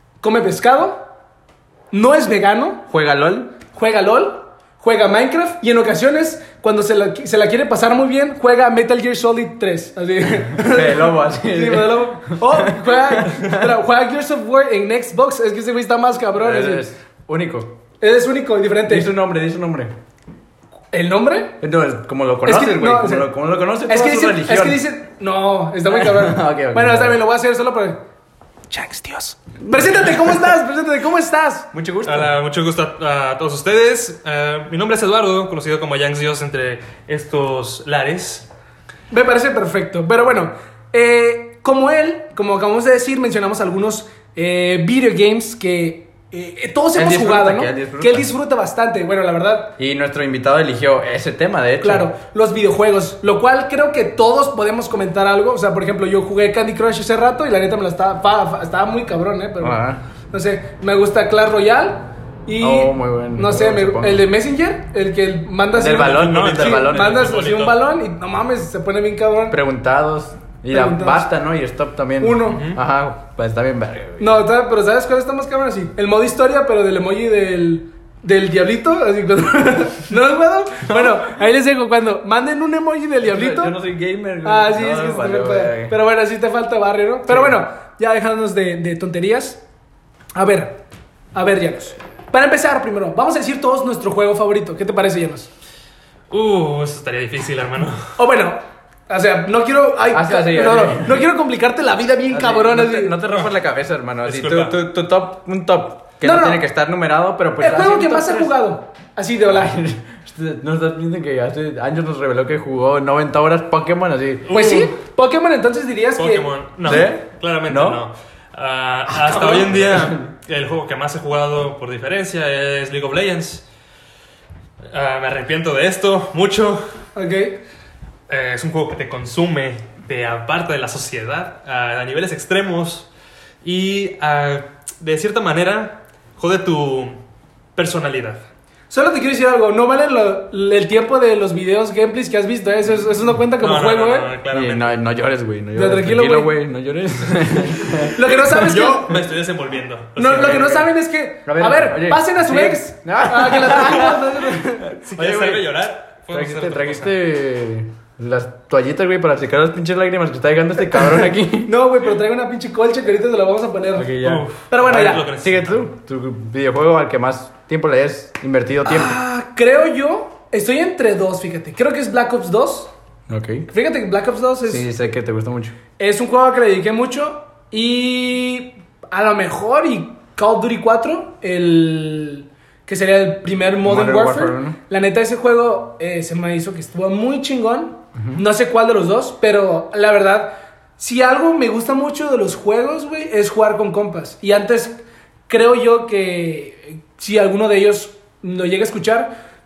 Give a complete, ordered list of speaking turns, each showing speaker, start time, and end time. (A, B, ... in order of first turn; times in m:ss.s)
0:00.2-0:01.1 A
0:01.9-0:02.9 A
0:02.9-0:03.5 B
0:03.7-0:16.8 A
0:10.4-0:13.7 B
0:16.4-0:17.8 B
0:18.0-0:19.1 A
0:18.9-0:20.0 B
0:20.9-0:21.6 A
0:21.6-0:24.8 B
0:22.5-0:23.3 A
0:23.9-0:28.0 A
0:25.9-0:27.2 B
0:28.7-0:31.7 A
0:31.7-0:32.4 B
0:32.0-0:38.5 C
0:39.1-0:49.8 A
0:47.0-0:48.3 B
0:49.8-0:52.1 B
0:51.8-1:09.6 A
0:59.6-1:00.0 B
1:02.6-1:04.2 B
1:05.7-1:07.3 B
1:05.9-1:07.8 C
1:09.5-1:14.4 B
1:10.7-1:11.3 A
1:12.2-1:12.7 A
1:12.5-1:12.8 C
1:14.2-1:23.7 A
1:20.9-1:21.2 B
1:23.2-1:25.9 B
1:24.4-1:29.6 A
1:27.3-1:27.6 B
1:30.4-1:30.8 A
1:31.3-1:35.5 A
1:36.3-1:38.1 C
1:38.2-1:43.2 A
1:40.1-1:41.3 B
1:42.3-1:48.5 B
1:44.2-1:44.8 C
1:46.2-1:46.6 A
1:47.6-1:49.8 A
1:49.5-1:54.5 B
1:54.5-1:54.9 C
1:54.5-1:57.0 A
1:56.2-2:03.6 C
1:56.8-1:58.0 B
1:59.2-1:59.7 A
1:59.3-2:00.2 B
2:04.9-2:07.0 C
2:07.2-2:07.6 A
2:08.3-2:13.1 C
2:13.6-2:17.2 C
2:17.8-2:18.4 C
2:18.9-2:24.3 A
2:23.6-2:25.0 C
2:24.5-2:28.6 B
2:25.8-2:26.6 A
2:28.1-2:29.2 A
2:28.5-2:30.7 C
2:30.2-2:34.8 A
2:30.2-2:30.9 B
2:31.5-2:35.7 B
2:34.9-2:37.2 C
2:36.3-2:41.7 B
2:41.6-2:44.1 A
2:44.0-2:49.2 B
2:44.2-2:45.9 C
2:44.7-2:45.2 A
2:48.8-2:52.9 A
2:53.3-2:53.7 B
2:53.7-2:54.8 A
2:54.6-2:55.8 B
2:56.0-3:19.4 A
3:03.8-3:04.8 B
3:08.2-3:08.4 B